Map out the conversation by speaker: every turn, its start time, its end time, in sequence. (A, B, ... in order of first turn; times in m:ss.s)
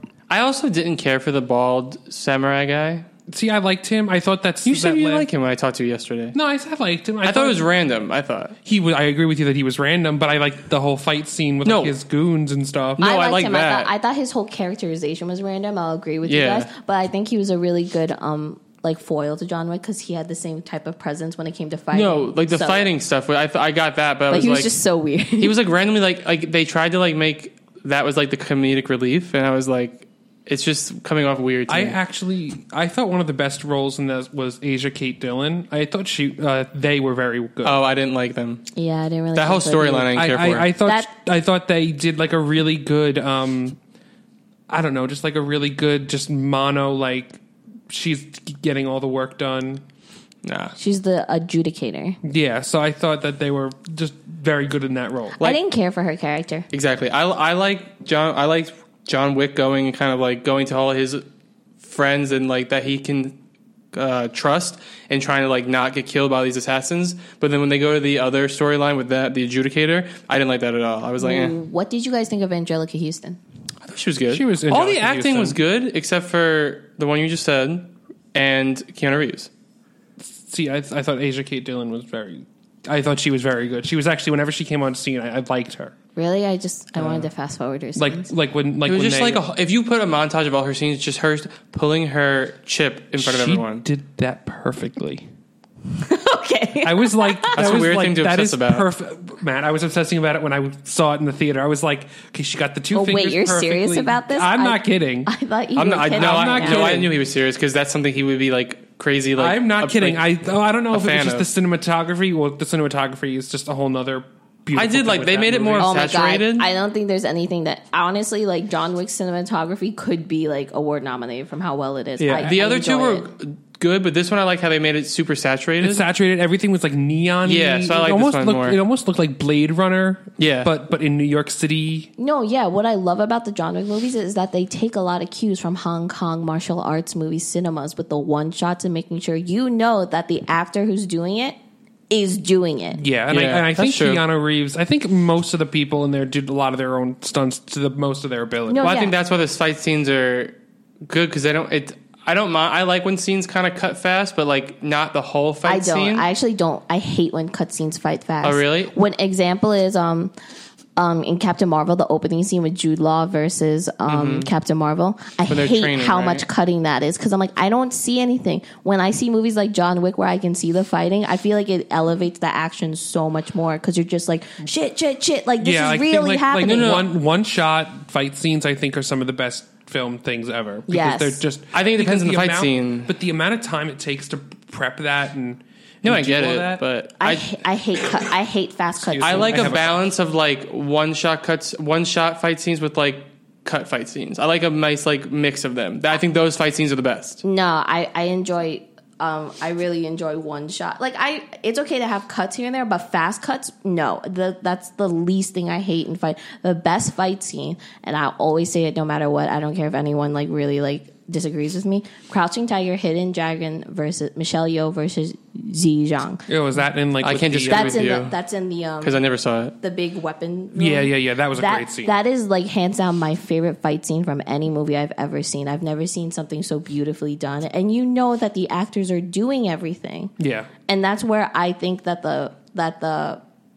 0:00.3-0:03.1 A
0:03.3-0:05.3 B
0:04.6-0:06.4 A
0:06.3-0:07.7 B
0:07.2-0:08.6 A
0:08.6-0:13.0 B
0:11.6-0:11.9 A
0:13.0-0:13.9 A
0:13.0-0:22.9 C
0:16.2-0:16.7 A
0:21.9-0:24.8 A
0:24.3-0:25.6 C
0:25.4-0:32.0 A
0:31.7-0:37.8 B
0:37.6-0:38.7 A
0:38.7-0:40.2 C
0:39.3-0:40.7 A
0:40.1-0:43.8 B
0:44.7-0:49.8 B
0:50.4-0:50.7 A
0:50.8-0:52.2 C
0:52.2-0:55.4 B
0:55.4-0:56.6 C
0:56.7-1:01.2 A
1:01.8-1:03.4 A
1:03.9-1:11.5 A
1:11.2-1:13.4 C
1:13.8-1:19.5 A
1:14.3-1:15.6 B
1:20.2-1:25.9 B
1:26.2-1:28.3 C
1:28.0-1:29.4 B
1:28.8-1:33.8 A
1:33.2-1:35.2 B
1:36.0-1:37.6 C
1:36.8-1:45.3 B
1:37.5-1:38.8 A
1:42.9-1:47.1 C
1:45.8-1:50.3 A
1:46.1-1:47.1 B
1:49.4-1:55.9 B
1:50.9-1:51.5 A
1:54.7-1:56.7 A
1:55.8-2:03.3 C
2:02.2-2:02.5 B
2:02.4-2:06.0 A
2:05.8-2:12.1 B
2:07.4-2:08.8 A
2:10.4-2:10.7 A
2:12.2-2:21.6 C
2:22.1-2:23.0 C
2:22.9-2:28.9 B
2:23.3-2:24.2 A
2:28.7-2:29.1 C
2:28.8-2:36.3 A
2:35.6-2:40.3 C
2:38.4-2:38.9 A
2:41.0-2:56.9 C
2:44.0-2:44.5 A
2:45.5-2:46.4 A
2:55.6-3:06.8 B
2:56.6-2:57.1 A
3:00.9-3:01.4 C
3:01.7-3:03.1 A
3:06.0-3:07.6 A
3:07.2-3:09.8 C
3:09.0-3:10.0 B
3:09.2-3:17.4 A
3:17.4-3:36.4 C
3:36.5-3:38.1 B
3:37.2-3:38.3 A
3:37.7-3:39.2 C
3:39.0-3:39.7 A
3:39.8-3:50.3 C
3:40.7-3:42.1 B
3:50.4-3:50.7 B
3:50.9-3:53.4 C